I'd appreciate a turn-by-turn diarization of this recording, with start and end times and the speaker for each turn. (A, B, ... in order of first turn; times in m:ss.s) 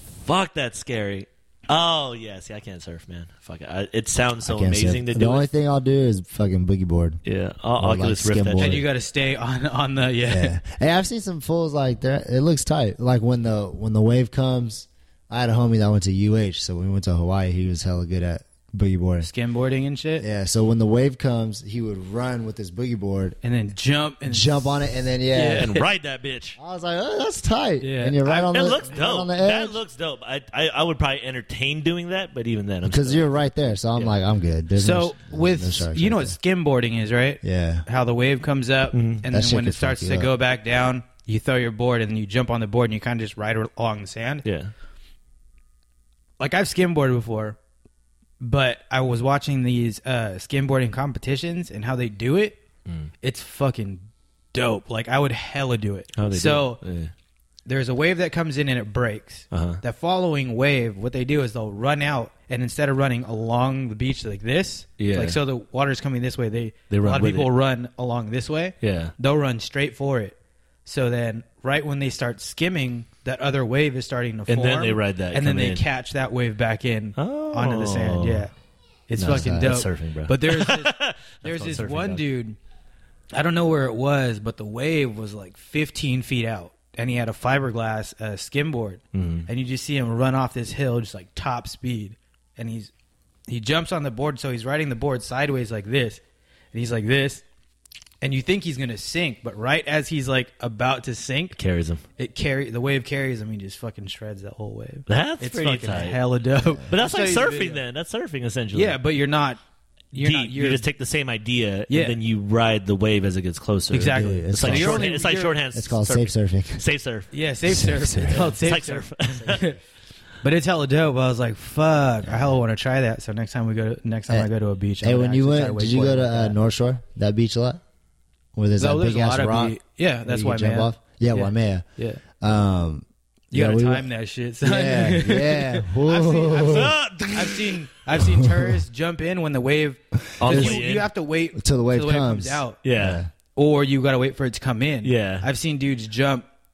0:00.2-0:05.5 A
0:04.4-0:07.2 B
0:07.2-0:08.8 A
0:07.8-0:08.8 B
0:08.6-0:10.6 C
0:10.3-0:19.3 B
0:19.2-0:20.3 C
0:20.2-0:23.4 B
0:23.4-0:25.8 C
0:24.3-0:25.7 B
0:25.6-0:26.6 A
0:26.6-0:29.8 B
0:27.8-0:28.6 C
0:28.5-0:33.4 A
0:32.8-0:36.4 B
0:34.8-0:44.5 C
0:37.4-0:37.8 B
0:38.9-0:39.3 A
0:39.3-0:40.3 B
0:44.4-0:44.7 A
0:46.4-0:47.6 C
0:48.4-0:52.6 C
0:53.2-0:56.8 C
0:56.2-0:57.1 A
0:57.7-1:18.5 C
0:59.5-0:59.8 A
1:05.0-1:05.4 A
1:06.9-1:07.5 A
1:08.8-1:09.1 A
1:14.5-1:15.8 A
1:17.2-1:18.5 A
1:19.1-1:22.6 C
1:19.2-1:22.2 A
1:19.2-1:19.7 B
1:23.3-1:32.9 C
1:29.1-1:29.5 A
1:33.5-1:36.2 C
1:36.7-1:37.4 C
1:38.2-1:41.6 C
1:41.6-1:42.0 A
1:42.2-1:47.8 C
1:45.1-1:46.2 A
1:46.9-1:49.0 A
1:48.7-1:49.6 C
1:50.1-1:50.8 C
1:50.2-1:57.3 A
1:51.9-1:52.2 C
1:53.9-1:55.6 C
1:54.2-1:55.2 B
1:55.7-1:56.8 B
1:57.3-1:59.8 C
1:57.7-1:58.6 B
1:58.2-1:59.7 A
1:59.4-1:59.7 B
2:00.4-2:06.6 C
2:05.0-2:07.8 B
2:08.6-2:11.8 B
2:08.8-2:12.2 C
2:12.4-2:14.1 B
2:13.5-2:22.8 C
2:14.6-2:17.0 B
2:16.6-2:17.8 A
2:18.2-2:18.7 B
2:20.4-2:20.8 B
2:20.4-2:21.1 A
2:21.6-2:23.3 B
2:22.8-2:23.2 A
2:23.6-2:26.5 C
2:25.0-2:25.5 A